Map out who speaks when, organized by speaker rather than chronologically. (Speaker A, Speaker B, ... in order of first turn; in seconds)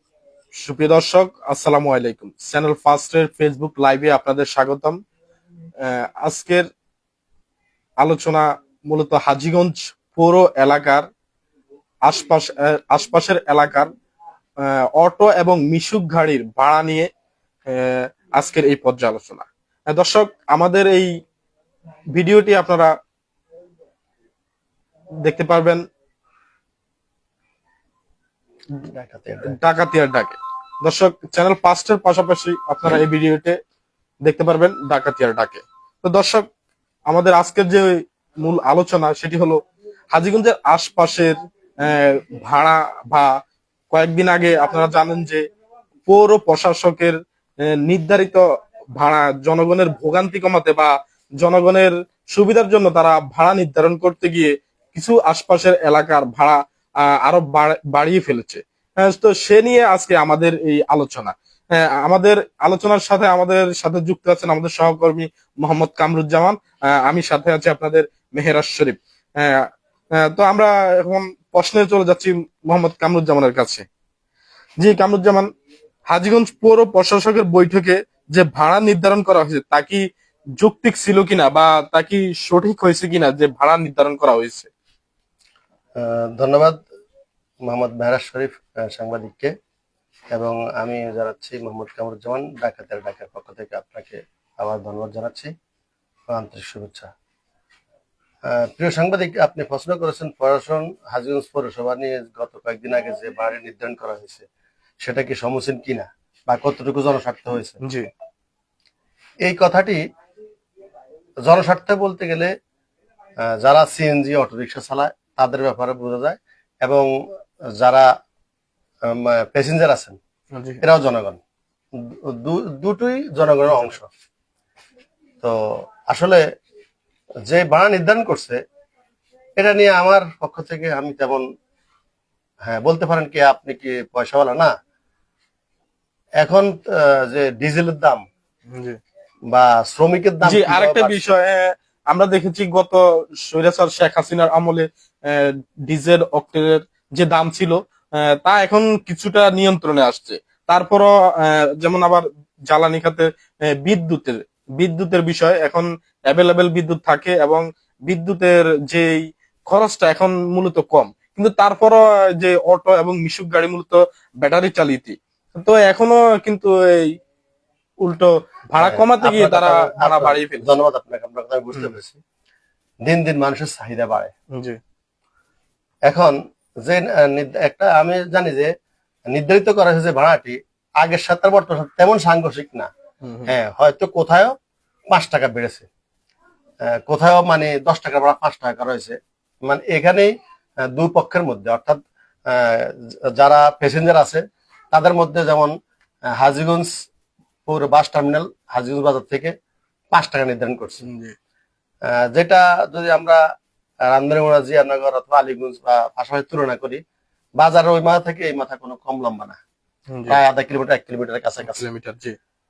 Speaker A: 0.6-5.0, 5.8-6.7, 8.0-11.0, 12.1-13.9, 14.6-17.1, 17.7-21.1, 22.2-22.9, 25.2-25.8, 29.4-33.6, 34.2-36.4, 37.1-43.3, 43.9-45.4, 46.1-47.2, 47.7-48.4, 49.0-73.8, 74.8-75.5, 76.1-80.0, 80.6-84.7, 107.8-108.1, 120.5-120.8, 138.7-139.0, 140.4-159.2, 159.7-167.1, 168.0-170.7, 183.2-183.5, 201.0-201.3, 210.1-210.4, 211.7-212.3
Speaker B: 28.8-29.6, 86.0-86.8, 87.7-89.5, 90.3-95.5, 96.3-97.1, 98.5-104.5, 105.0-107.8, 109.4-110.0, 111.5-112.5, 113.5-117.1, 117.8-118.1, 119.1-120.2, 120.8-121.4, 122.0-124.1, 125.4-126.4, 127.5-128.6, 129.6-131.4, 132.7-134.7, 136.4-138.2, 139.5-141.2, 168.8-172.2, 173.1-174.3, 176.1-176.3, 176.8-178.7, 179.3-182.9, 183.5-184.5, 185.1-185.8, 186.9-190.3, 190.9-192.0, 192.5-195.7, 196.4-196.9, 197.7-199.5, 200.1-201.0, 202.1-203.4, 204.1-207.0, 207.6-209.6, 210.3-211.8